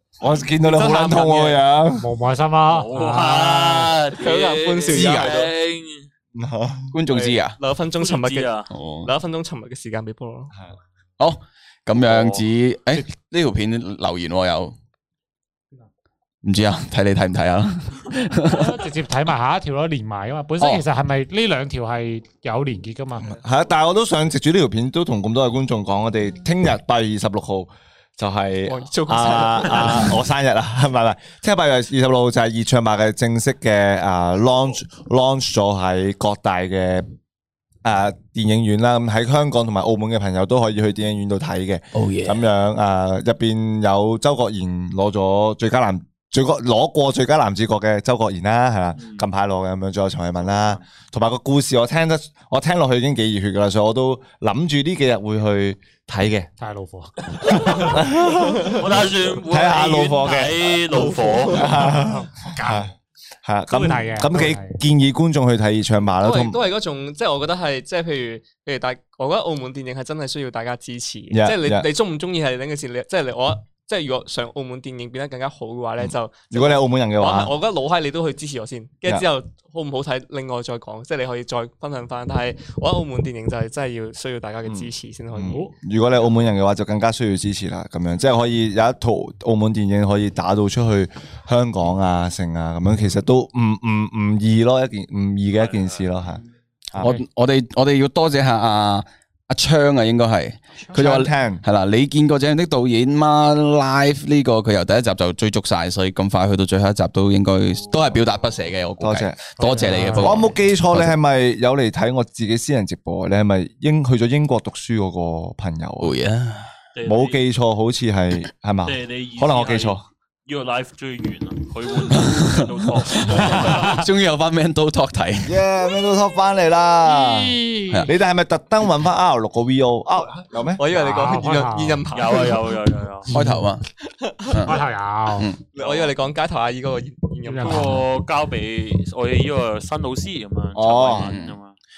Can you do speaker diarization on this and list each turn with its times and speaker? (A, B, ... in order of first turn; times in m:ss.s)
0:00.2-0:02.1 A
0:00.6-0:01.6 B
0:02.0-0:04.0 C
0:02.7-0:06.1 D
0:04.1-0:05.5 B
0:04.9-0:05.4 E
0:06.3-0:06.9 A
0:06.9-0:07.6 E
0:07.1-0:10.5 B
0:08.0-0:08.7 D
0:08.7-0:09.1 E
0:11.2-0:14.8 E
0:11.9-0:12.4 D
0:16.4-0:18.8 E
0:18.5-0:23.3 C
0:23.2-0:37.1 A
0:28.7-0:30.2 B
0:37.8-0:56.5 A
0:41.9-0:42.4 E
0:49.0-0:49.3 D
0:50.4-0:50.8 D
0:56.6-0:58.1 C
0:57.5-0:58.8 A
0:58.7-1:01.9 D
0:59.4-1:02.9 A
1:02.5-1:02.9 C
1:03.4-1:06.6 A
1:03.7-1:04.8 C
1:06.2-1:25.6 B
1:11.3-1:11.9 A
1:16.5-1:17.5 A
1:24.6-1:36.4 A
1:25.4-1:25.7 C
1:35.5-1:36.4 D
1:37.0-1:51.1 E
1:40.9-1:41.6 A
1:47.6-1:48.7 D
1:49.0-1:56.1 A
1:49.6-1:50.5 C
1:56.0-1:56.7 E
1:56.9-1:57.4 D
1:57.0-2:00.0 A
1:58.8-2:04.0 D
2:02.1-2:05.6 E
2:03.4-2:03.8 C
2:05.4-2:10.8 A
2:07.3-2:08.0 C
2:10.8-2:12.6 B
2:10.9-2:12.4 C
2:12.1-2:13.3 D
2:13.3-2:13.6 C
2:13.3-2:13.8 E
2:14.2-2:14.5 B
2:14.5-2:15.6 E
2:14.6-2:15.5 C
2:15.7-2:18.0 B
2:17.4-2:18.0 C
2:17.6-2:21.7 D
2:20.7-2:21.3 A
2:21.1-2:21.6 E